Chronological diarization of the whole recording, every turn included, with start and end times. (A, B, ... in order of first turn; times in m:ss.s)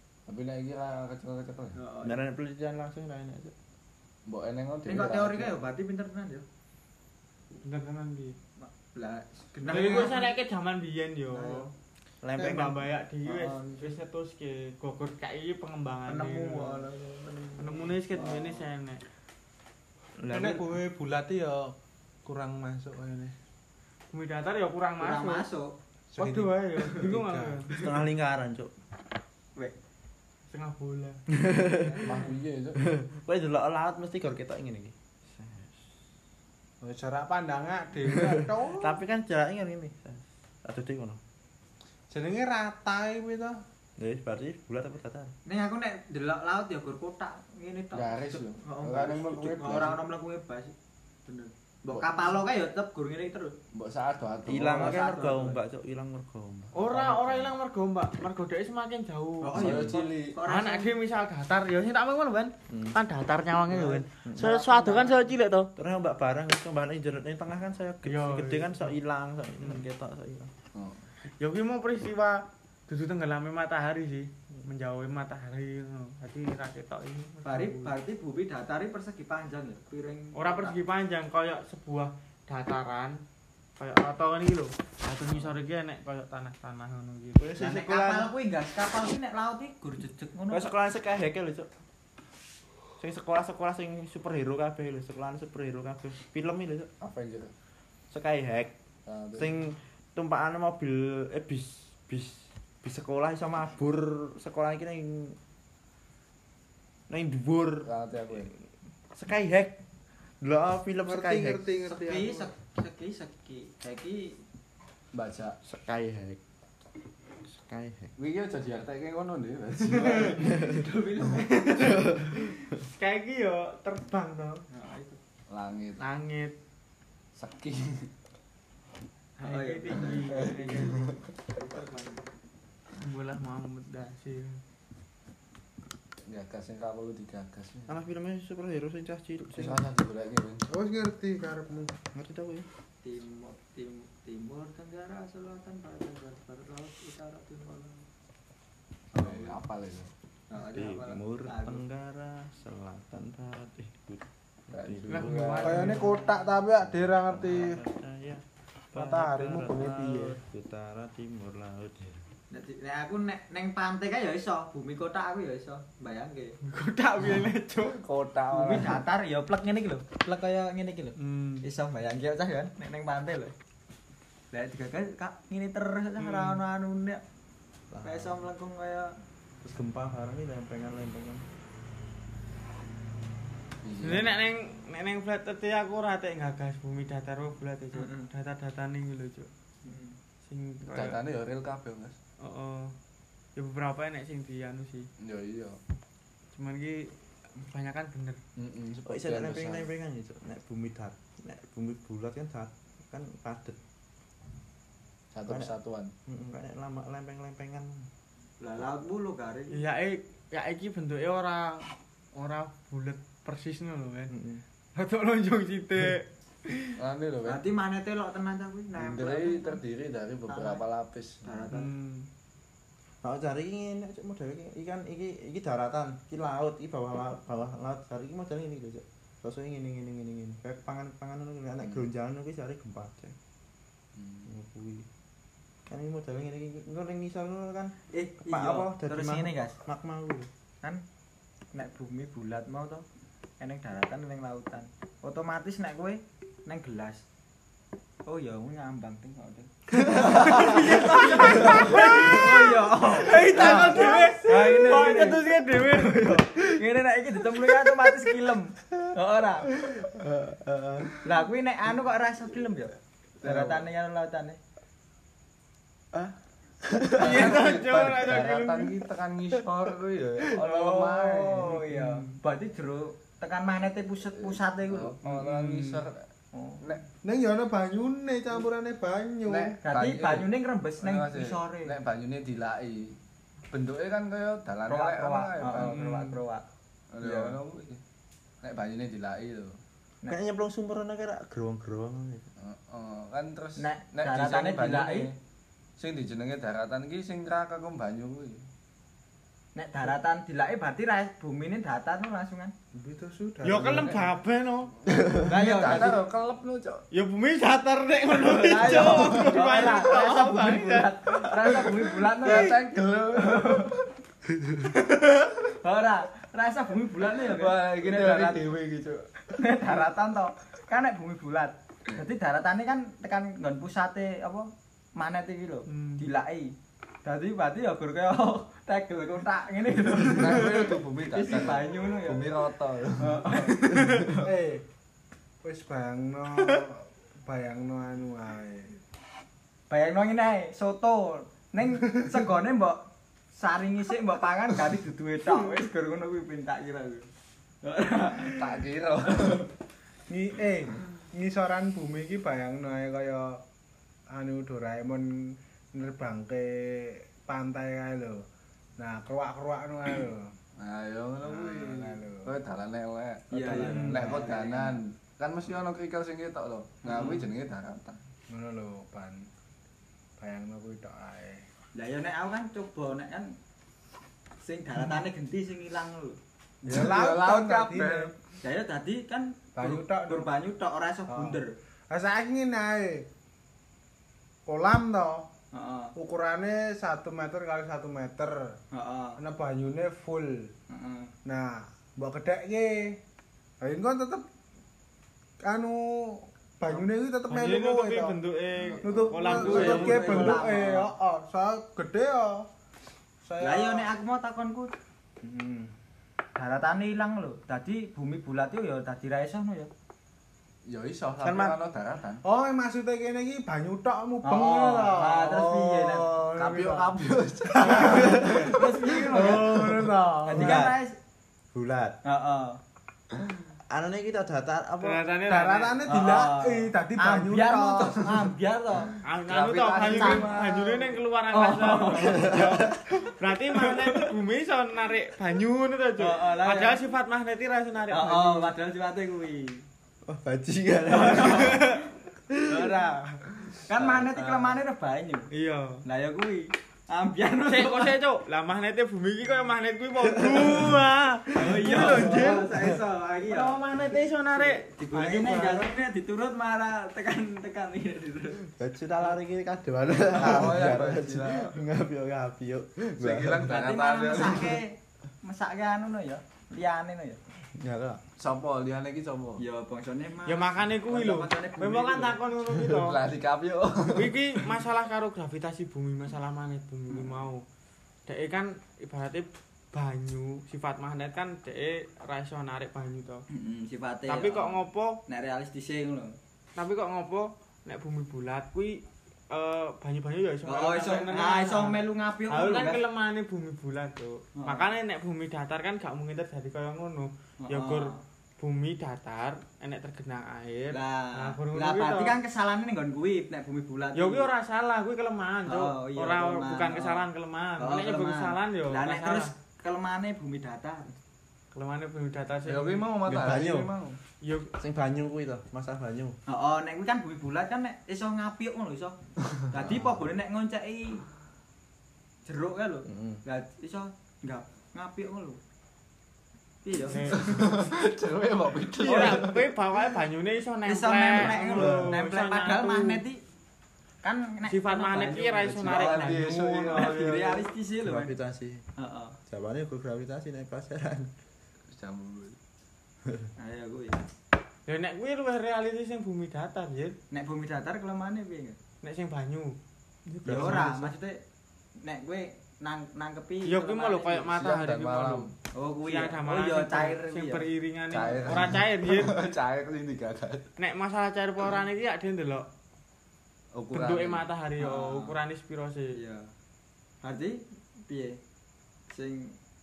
0:00.3-0:01.8 A
0:01.8-0:02.2 B
0:02.0-0:03.5 C
0:04.3-0:05.6 A
0:04.9-0:06.4 B
0:07.6-0:08.4 D
0:08.6-0:10.3 B
0:09.7-0:10.2 E
0:09.7-0:11.7 D
0:11.3-0:11.7 B
0:12.2-0:12.9 C
0:12.4-0:16.8 D
0:13.3-0:14.0 B
0:16.1-0:18.7 B
0:16.2-0:16.8 C
0:17.6-0:19.0 D
0:20.2-0:20.7 C
0:20.3-0:21.7 E
0:22.2-0:23.4 E
0:24.1-0:25.5 D
0:25.0-0:25.7 B
0:26.1-0:27.9 E
0:26.2-0:27.7 D
0:27.7-0:28.7 C
0:30.5-0:31.2 D
0:31.3-0:32.0 C
0:32.0-0:32.8 A
0:32.8-0:35.9 C
0:36.8-0:39.0 E
0:38.1-0:41.2 C
0:42.1-0:43.6 E
0:44.0-0:45.3 C
0:45.5-0:50.7 B
0:47.9-0:50.0 A
0:51.3-0:53.6 B
0:53.7-0:55.0 A
0:54.5-0:57.5 C
0:54.6-0:55.6 B
0:56.7-0:59.6 D
0:59.4-1:00.9 B
0:59.6-1:00.4 A
0:59.6-0:59.9 C
1:00.5-1:05.7 D
1:02.7-1:03.0 C
1:03.7-1:04.0 A
1:04.1-1:05.1 C
1:05.8-1:10.5 C
1:08.0-1:09.0 D
1:10.7-1:11.0 A
1:11.4-1:18.0 D
1:17.5-1:20.8 B
1:20.4-1:23.2 D
1:23.8-1:27.6 D
1:27.4-1:28.3 C
1:27.6-1:30.7 B
1:30.5-1:31.7 C
1:33.0-1:36.9 C
1:37.0-1:37.5 A
1:38.1-1:38.7 C
1:39.1-1:39.5 A
1:39.3-1:45.4 C
1:47.1-1:48.6 C
1:47.9-1:48.5 A
1:49.1-1:49.8 C
1:50.4-1:51.7 C
1:51.0-1:52.5 E
1:51.9-1:54.4 B
1:55.1-1:55.6 A
1:55.6-1:56.4 C
1:57.4-1:58.1 C
1:58.2-2:00.5 A
2:00.0-2:01.6 B
2:00.4-2:00.8 C
2:01.3-2:04.6 D
2:01.8-2:02.8 C
2:04.7-2:05.2 B
2:05.5-2:06.0 A
2:06.0-2:06.5 D
2:07.4-2:08.1 A
2:09.4-2:11.1 D
2:09.4-2:12.2 B
2:10.1-2:11.1 A
2:13.0-2:14.6 D
2:16.3-2:18.0 A
2:17.9-2:19.9 C
2:19.5-2:20.7 A
2:20.7-2:22.0 E
2:22.1-2:22.7 C
2:23.0-2:28.1 B
2:29.1-2:30.1 A
2:30.5-2:31.8 B
2:30.6-2:35.3 C
2:34.7-2:36.0 A
2:35.1-2:36.5 D
2:35.6-2:37.8 E
2:37.3-2:42.2 C
2:38.9-2:40.4 E
2:42.5-2:46.6 B
2:46.6-2:48.0 D
2:48.0-2:49.0 A
2:48.5-2:53.5 B
2:51.2-2:51.6 D
2:54.5-2:57.2 B
2:56.2-2:56.6 D
2:57.9-2:58.4 C
2:58.0-2:59.2 B
2:59.6-3:01.4 C
3:03.8-3:04.3 A
3:04.0-3:09.5 D
3:07.9-3:08.3 B
3:09.8-3:10.2 B
3:10.5-3:11.2 D
3:10.9-3:12.2 A
3:12.4-3:13.0 D
3:13.6-3:15.1 D
3:15.2-3:15.8 A
3:16.6-3:18.4 D
3:18.6-3:19.9 A
3:19.0-3:23.8 C
3:25.3-3:26.1 A
3:25.5-3:25.7 C
3:26.3-3:28.1 C
3:28.6-3:29.7 B
3:29.7-3:34.3 D
3:34.3-3:34.6 C
3:35.0-3:37.0 D
3:37.0-3:37.6 A
3:37.5-3:39.8 B
3:39.0-3:41.4 A
3:40.5-3:40.8 B
3:41.4-3:41.9 B
3:41.7-3:42.3 D
3:43.2-3:53.4 C
3:54.2-3:54.5 A
3:54.5-3:55.1 C
3:55.9-3:58.0 C
3:58.1-3:59.8 B
3:58.5-4:00.5 C
4:01.7-4:03.0 B
4:03.6-4:07.2 B
4:08.3-4:19.7 B
4:10.0-4:12.4 C
4:10.1-4:16.4 D
4:13.5-4:14.4 C
4:16.0-4:16.6 C
4:19.7-4:21.2 C
4:21.2-4:24.6 B
4:23.4-4:23.8 A
4:26.9-4:27.6 C
4:27.1-4:31.8 A
4:27.2-4:29.0 D
4:30.5-4:35.2 B
4:34.4-4:36.3 A
4:36.5-4:36.8 B
4:37.2-4:39.8 E
4:39.5-4:40.5 A
4:39.8-4:42.0 B
4:41.0-4:43.2 A
4:43.7-4:46.1 A
4:44.9-4:46.6 B
4:45.7-4:46.4 D
4:47.1-4:48.0 A
4:47.2-4:47.6 B
4:48.6-4:49.8 A
4:50.3-4:52.5 C
4:52.6-4:55.3 A
4:53.8-4:55.3 B
4:56.0-4:58.6 A
4:59.8-5:02.7 B
5:02.9-5:04.2 E
5:03.6-5:04.9 D
5:03.8-5:04.3 A
5:05.1-5:07.0 A
5:05.4-5:06.2 B
5:07.1-5:11.7 D
5:08.4-5:13.9 B
5:11.6-5:14.0 A
5:15.6-5:18.7 B
5:17.4-5:19.3 A
5:19.5-5:26.7 B
5:27.2-5:32.5 B
5:30.3-5:34.3 A
5:33.2-5:34.5 B
5:34.4-5:34.8 E
5:35.6-5:39.0 E
5:39.9-5:43.0 B
5:43.6-5:47.3 B
5:47.8-5:48.8 B
5:48.4-5:49.7 A
5:50.3-5:53.6 E
5:54.3-5:58.4 E
5:59.0-6:00.5 E
6:00.8-6:08.2 A
6:01.4-6:02.5 E
6:03.5-6:05.0 B
6:03.7-6:04.6 E
6:07.1-6:07.5 B
6:08.5-6:09.5 E
6:10.4-6:11.6 E
6:12.0-6:13.5 B
6:14.6-6:16.4 B
6:16.8-6:18.3 E
6:16.8-6:18.3 A
6:18.6-6:21.7 B
6:19.8-6:20.5 E
6:21.3-6:23.3 E
6:24.7-6:25.5 E
6:25.7-6:26.1 B
6:26.2-6:28.7 E
6:28.9-6:29.4 B
6:29.4-6:30.7 E
6:30.9-6:31.3 B
6:31.4-6:33.2 E
6:33.8-6:34.5 E
6:35.6-6:38.4 E
6:37.5-6:40.6 D
6:39.0-6:42.7 E
6:39.4-6:41.1 B
6:43.4-6:44.1 E
6:43.6-6:44.9 B
6:45.4-6:45.9 E
6:46.6-6:49.9 B
6:50.9-6:52.4 A
6:51.4-6:51.8 C
6:52.4-7:00.9 E
6:54.4-6:59.7 B
6:58.1-6:58.7 C
6:59.8-7:00.9 C
7:00.4-7:01.2 B
7:01.7-7:02.2 C
7:02.2-7:02.8 B
7:03.9-7:05.2 C
7:05.0-7:06.0 D
7:05.5-7:08.5 E
7:06.1-7:12.6 B
7:09.2-7:18.7 D
7:09.5-7:10.6 A
7:12.2-7:13.3 C
7:13.9-7:14.3 C
7:16.2-7:17.0 B
7:18.1-7:19.8 B
7:20.3-7:24.8 C
7:21.1-7:21.8 B
7:21.5-7:22.0 D
7:22.7-7:23.2 B
7:23.9-7:25.5 B
7:25.5-7:26.0 D
7:26.0-7:28.2 B
7:27.7-7:32.7 D
7:30.4-7:31.1 C
7:31.5-7:33.8 B
7:31.9-7:33.0 C
7:33.5-7:34.9 D
7:34.6-7:38.6 B
7:35.2-7:35.8 E
7:38.7-7:43.7 C
7:40.3-7:41.7 A
7:43.2-7:44.8 A
7:43.7-7:47.4 B
7:47.8-7:48.2 C
7:48.4-7:49.6 A
7:49.6-7:52.4 B
7:50.5-7:53.2 D
7:53.0-7:54.4 A
7:54.1-7:57.6 D
7:58.3-8:03.4 D
8:03.5-8:06.4 B
8:04.3-8:05.2 D
8:06.8-8:22.4 D
8:10.7-8:13.0 B
8:14.6-8:14.8 B
8:17.7-8:18.2 B
8:20.9-8:24.5 B
8:24.2-8:29.5 D
8:25.7-8:27.3 B
8:27.8-8:31.1 B
8:31.7-8:33.1 D
8:32.6-8:34.2 A
8:33.3-8:33.9 C
8:34.4-8:34.7 D
8:34.8-8:36.4 C
8:36.5-8:41.2 B
8:42.5-8:45.6 B
8:43.1-8:43.4 C
8:46.8-8:47.7 B
8:47.1-8:47.5 D
8:47.3-8:49.7 A
8:49.0-8:53.2 D
8:49.1-8:49.5 B
8:50.9-8:53.4 B
8:51.4-8:52.1 C
8:54.2-8:58.3 B
8:54.7-8:57.4 D
8:55.9-8:56.6 A
8:55.9-8:57.7 E
8:58.0-8:58.8 C
8:59.0-8:59.4 B
8:59.5-9:01.3 C
9:01.9-9:02.6 A
9:03.6-9:04.3 B
9:04.9-9:07.2 D
9:07.3-9:08.8 B
9:09.0-9:09.8 D
9:10.3-9:11.0 C
9:10.4-9:11.4 B
9:12.0-9:14.5 B
9:13.7-9:15.5 D
9:14.5-9:15.5 A
9:15.7-9:17.7 B
9:16.0-9:19.6 D
9:18.1-9:20.7 A
9:20.8-9:22.7 D
9:23.7-9:24.5 A
9:23.9-9:26.1 D
9:24.8-9:25.4 B
9:26.1-9:26.5 B
9:27.2-9:28.4 B
9:29.1-9:29.5 B